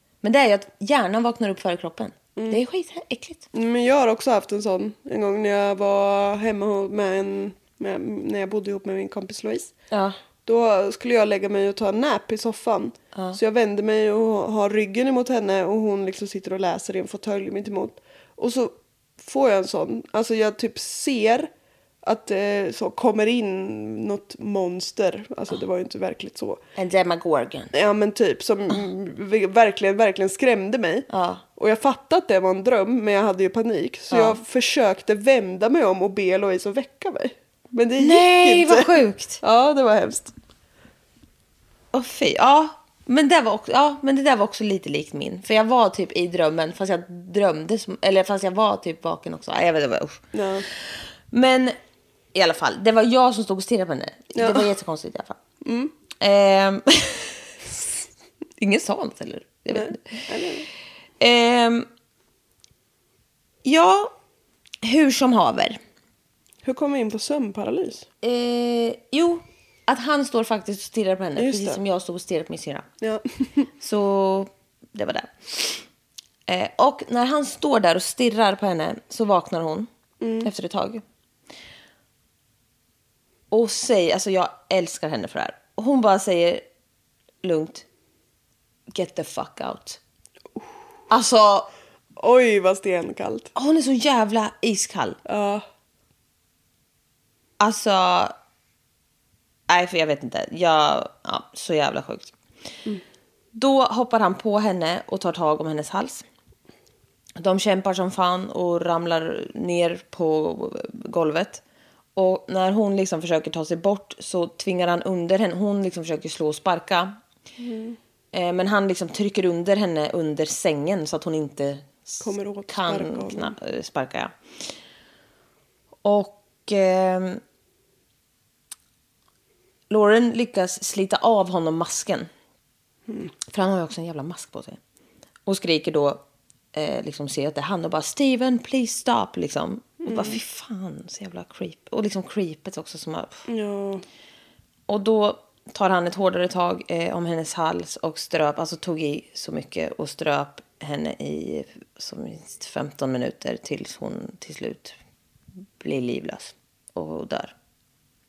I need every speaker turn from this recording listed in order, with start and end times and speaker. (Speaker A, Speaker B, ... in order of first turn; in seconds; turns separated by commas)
Speaker A: 0.2-3.5, Speaker B: 3.5-9.7, Speaker A: 9.9-10.2, Speaker B: 10.4-21.5, Speaker A: 13.1-13.4, Speaker B: 22.0-26.6, Speaker A: 26.8-27.7, Speaker B: 27.7-40.3, Speaker A: 31.1-31.4, Speaker A: 34.1-34.4, Speaker A: 38.0-39.4, Speaker A: 41.9-51.8, Speaker B: 50.3-50.7, Speaker A: 52.3-55.4, Speaker B: 54.4-54.7, Speaker B: 55.6-55.9, Speaker A: 56.2-57.9, Speaker A: 58.6-60.2, Speaker B: 59.7-60.7, Speaker A: 61.2-61.9, Speaker A: 63.6-64.1, Speaker A: 64.8-65.8, Speaker B: 66.6-68.0, Speaker A: 68.2-72.9, Speaker B: 71.4-71.8, Speaker B: 73.0-73.7, Speaker A: 73.8-75.8, Speaker A: 76.5-79.9, Speaker B: 80.2-80.5, Speaker A: 80.4-81.0, Speaker A: 83.5-86.6, Speaker A: 87.4-87.9, Speaker A: 88.9-90.0, Speaker A: 91.1-91.7, Speaker B: 92.2-93.5, Speaker A: 93.5-95.2, Speaker B: 95.3-95.6, Speaker A: 97.6-98.3, Speaker A: 99.7-102.3, Speaker A: 103.5-106.2, Speaker A: 107.4-111.6, Speaker A: 112.2-117.2, Speaker B: 117.6-118.0, Speaker A: 118.3-124.3, Speaker B: 122.2-123.5, Speaker A: 126.0-127.4, Speaker A: 129.9-132.3, Speaker A: 133.5-134.8, Speaker A: 135.4-136.2, Speaker A: 136.7-143.4, Speaker B: 140.0-140.4, Speaker B: 143.5-144.0, Speaker A: 144.9-154.9, Speaker A: 155.8-157.6